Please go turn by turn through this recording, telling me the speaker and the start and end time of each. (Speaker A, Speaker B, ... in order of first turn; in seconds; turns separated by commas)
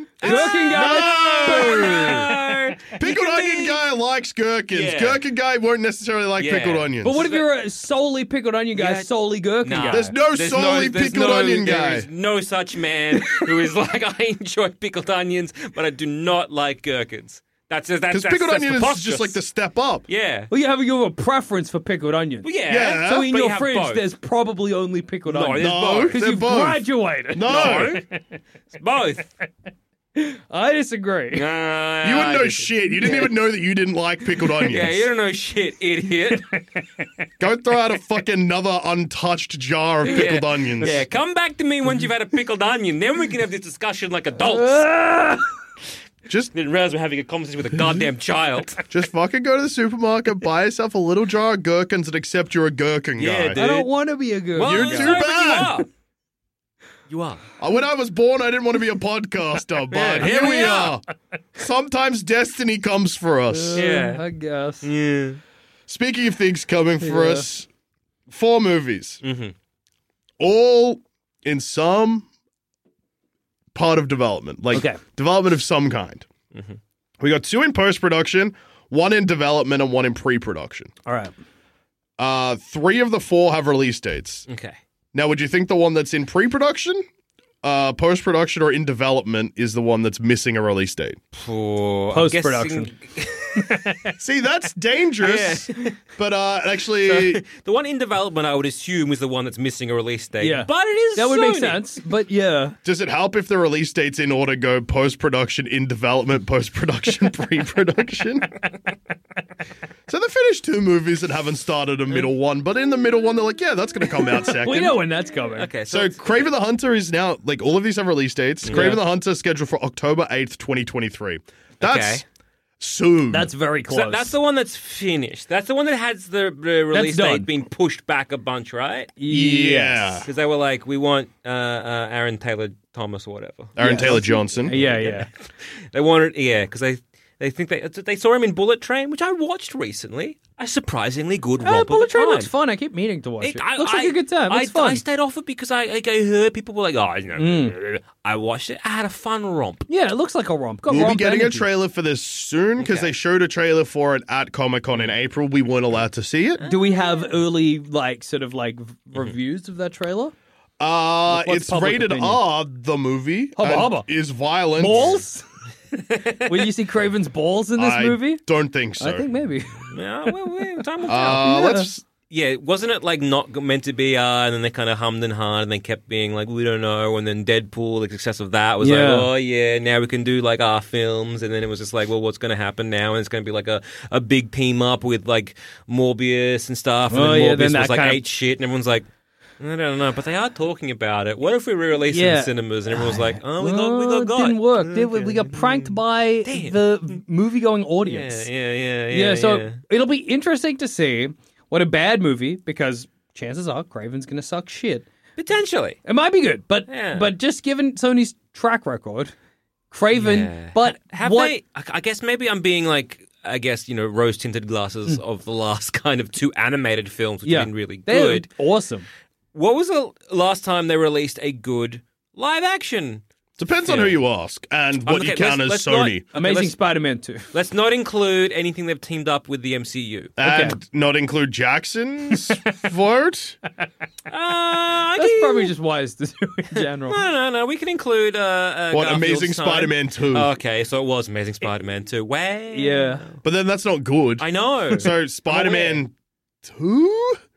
Speaker A: 0.2-3.8, Speaker B: 0.2-2.4, Speaker C: 0.2-2.3, Speaker C: 3.0-7.2, Speaker A: 4.7-5.2, Speaker A: 6.4-7.4, Speaker B: 7.0-10.1, Speaker A: 8.8-19.4, Speaker C: 9.9-12.1, Speaker C: 18.1-20.1, Speaker A: 20.1-20.5, Speaker B: 20.5-28.3, Speaker A: 22.4-24.1, Speaker C: 22.7-23.2, Speaker A: 25.2-26.2, Speaker C: 25.6-28.0, Speaker A: 27.4-28.0, Speaker A: 28.7-29.3, Speaker B: 30.1-31.4, Speaker A: 31.3-33.3, Speaker C: 32.0-35.1, Speaker A: 34.6-36.5, Speaker B: 36.3-36.8, Speaker C: 37.4-41.0, Speaker A: 40.0-44.9, Speaker B: 44.4-45.5, Speaker A: 46.5-48.8, Speaker C: 48.9-53.6, Speaker A: 53.2-53.9, Speaker B: 53.5-55.2, Speaker A: 54.5-55.9, Speaker C: 54.6-55.8, Speaker A: 57.1-57.4, Speaker C: 57.6-61.0, Speaker A: 59.9-61.0, Speaker C: 61.5-63.9, Speaker B: 63.5-64.9, Speaker A: 63.8-64.2, Speaker A: 64.8-65.4, Speaker C: 65.9-67.7, Speaker B: 67.0-67.4, Speaker C: 68.3-69.2, Speaker A: 69.2-69.5, Speaker C: 70.4-72.2, Speaker C: 73.7-76.2, Speaker B: 74.7-75.0, Speaker C: 77.2-80.9, Speaker B: 81.0-81.3, Speaker C: 82.2-84.4, Speaker A: 84.5-84.8, Speaker C: 85.1-87.0, Speaker C: 87.6-91.2, Speaker A: 91.3-93.7, Speaker B: 92.1-92.9, Speaker B: 93.5-94.1, Speaker C: 94.2-97.4, Speaker A: 95.2-96.0, Speaker A: 97.0-101.8, Speaker B: 100.4-102.8, Speaker C: 102.8-108.6, Speaker C: 110.1-115.0, Speaker B: 114.5-115.7, Speaker A: 115.5-116.5, Speaker C: 115.9-122.2, Speaker A: 118.6-119.0, Speaker B: 118.7-119.0, Speaker A: 121.8-122.2, Speaker C: 122.8-123.5, Speaker B: 123.3-124.3, Speaker A: 123.9-129.1, Speaker B: 126.9-127.5, Speaker B: 129.2-130.2, Speaker C: 129.3-130.3, Speaker A: 130.2-142.5, Speaker C: 133.8-134.8, Speaker B: 133.8-135.3, Speaker B: 141.6-145.0, Speaker A: 143.4-149.8, Speaker B: 147.4-147.7, Speaker B: 149.9-151.7, Speaker C: 150.9-156.6, Speaker A: 152.8-153.1, Speaker A: 156.6-157.3, Speaker B: 156.7-160.3, Speaker C: 160.8-165.2, Speaker B: 161.3-162.4, Speaker B: 163.6-164.1, Speaker B: 164.8-165.4, Speaker A: 166.1-166.6, Speaker B: 166.3-168.4, Speaker C: 167.8-169.2, Speaker B: 169.0-169.9, Speaker A: 169.9-171.5, Speaker C: 171.1-172.0, Speaker B: 171.2-171.9, Speaker A: 172.3-189.1, Speaker B: 178.8-179.3, Speaker B: 187.1-188.2, Speaker A: 189.6-197.2, Speaker B: 192.1-198.5, Speaker A: 198.0-199.8, Speaker B: 199.1-205.1, Speaker A: 205.4-206.0, Speaker B: 206.1-209.3, Speaker A: 206.9-207.3, Speaker B: 209.9-211.5, Speaker A: 210.1-218.5, Speaker B: 217.4-219.1, Speaker A: 219.5-223.2, Speaker C: 223.6-226.2, Speaker A: 223.8-224.2, Speaker A: 225.0-226.8, Speaker B: 226.3-227.4, Speaker A: 227.5-230.3, Speaker C: 230.4-233.6, Speaker B: 230.4-230.8, Speaker A: 234.3-235.7, Speaker B: 235.2-237.2, Speaker A: 236.7-243.4, Speaker C: 238.9-240.5, Speaker B: 242.7-243.2, Speaker C: 243.4-246.1, Speaker A: 244.4-246.0, Speaker C: 246.6-247.4